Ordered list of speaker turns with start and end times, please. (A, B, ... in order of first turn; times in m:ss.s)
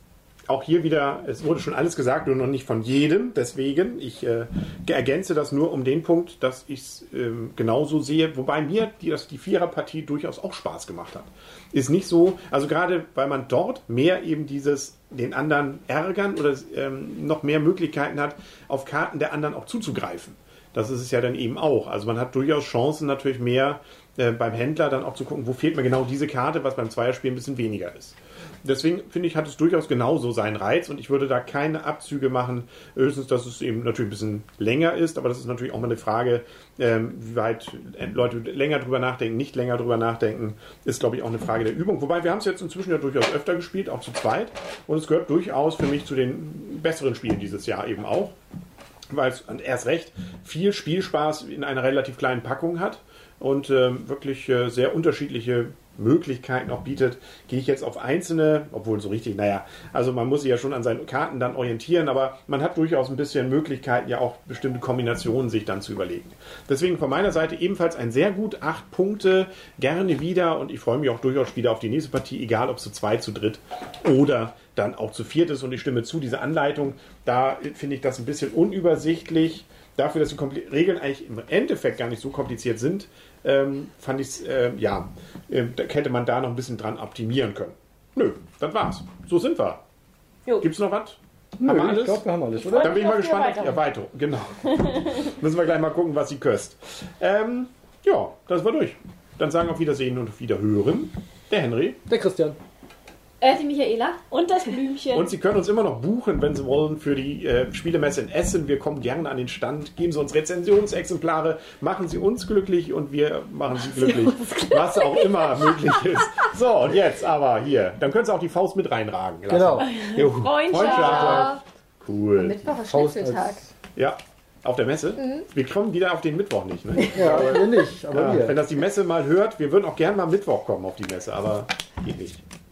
0:00.5-0:48.4 A
0:49.1-1:29.8 A
1:30.6-1:32.2 A
1:31.6-1:33.0 B
1:32.6-1:33.9 C
1:32.8-1:42.0 A
1:42.1-1:42.6 B
1:43.4-1:44.2 D
1:44.3-1:45.3 C
1:45.1-2:02.6 A
1:54.0-1:55.5 C
1:59.5-2:00.6 B
1:59.8-2:01.5 C
2:00.7-2:01.6 D
2:02.4-2:03.6 D
2:02.8-2:03.7 B
2:04.0-2:12.4 A
2:05.2-2:05.5 D
2:07.1-2:08.6 B